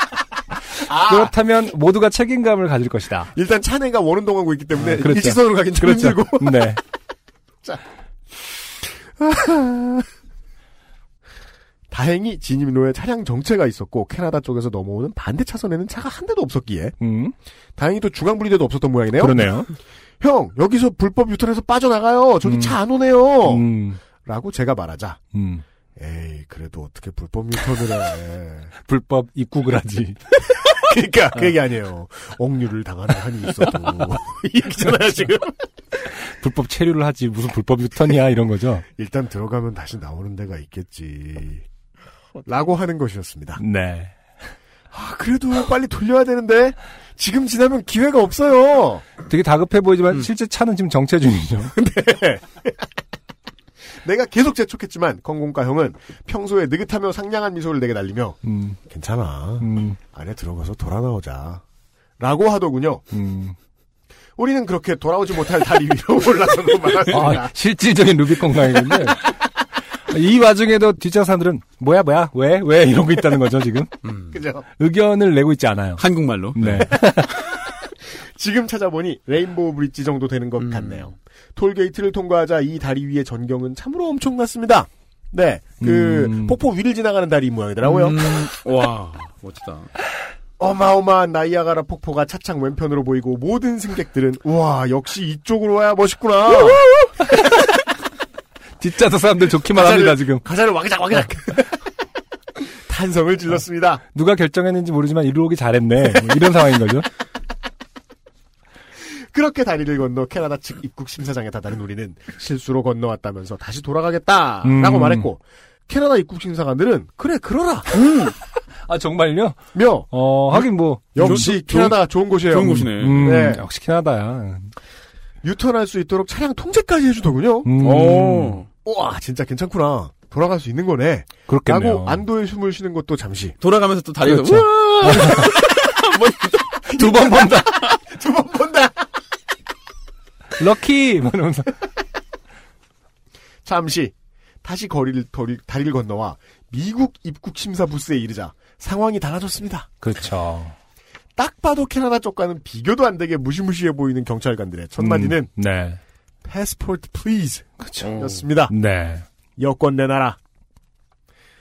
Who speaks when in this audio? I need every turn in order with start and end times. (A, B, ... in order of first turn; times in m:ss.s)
0:00.8-0:01.3 A
0:00.9-0:03.3 B
0:03.3-0:06.8 A
0:04.8-0:06.8 B
0:08.8-0:10.1 A
0:11.9-0:17.0 A
0:17.0-0:17.3 B
0:17.8-0:19.6 A
0:19.2-0:19.7 B
0:20.2-0:23.7 A
0:22.4-0:22.8 B
0:23.4-0:24.0 B
0:24.2-0:25.2 A
0:25.3-0:25.6 B
0:26.0-0:28.7 A
0:28.8-0:30.2 B
0:30.5-0:35.5 A
0:36.2-0:38.8 B
0:39.0-0:41.6 A
0:42.4-0:43.6 A
0:43.6-0:44.2 B
0:44.9-0:49.0 A
0:49.2-0:51.7 B
0:51.7-0:52.8 A
0:54.0-1:01.6 A
0:58.4-0:58.8 B
0:59.6-1:00.0 B
1:02.2-1:03.0 A
1:03.1-1:03.6 B
1:04.4-1:07.5 A
1:07.1-1:09.3 B
1:10.1-1:13.9 B
1:14.0-1:14.4 C
1:14.3-1:14.6 A
1:14.8-1:16.0 B
1:16.0-1:16.9 C
1:16.5-1:17.4 B
1:18.0-1:28.5 A
1:20.6-1:21.1 C
1:25.8-1:26.6 B
1:27.8-1:29.9 C
1:30.6-1:36.8 A
1:38.8-1:40.4 B
1:39.7-1:41.8 A
1:42.8-1:44.0 A
1:44.1-1:47.1 B
1:49.1-1:58.0 A
1:54.6-1:55.3 B
1:57.9-1:58.3 C
1:58.9-2:01.8 B
1:59.7-2:03.6 A
2:01.2-2:01.9 C
2:02.5-2:03.4 C
2:02.6-2:04.7 B
2:05.4-2:07.7 A
2:07.6-2:08.6 B
2:07.8-2:08.7 C
2:08.8-2:13.5 A
2:11.5-2:12.2 B
2:13.6-2:17.0 C
2:14.2-2:15.5 B
2:16.9-2:17.9 B
2:17.0-2:19.1 A
2:20.6-2:21.7 B
2:23.6-2:29.9 A
2:30.0-2:30.7 B
2:31.4-2:35.5 A
2:35.0-2:36.0 B
2:36.4-2:38.7 A
2:37.8-2:38.1 B
2:38.0-2:38.4 C
2:38.7-2:39.2 B
2:39.6-2:40.4 A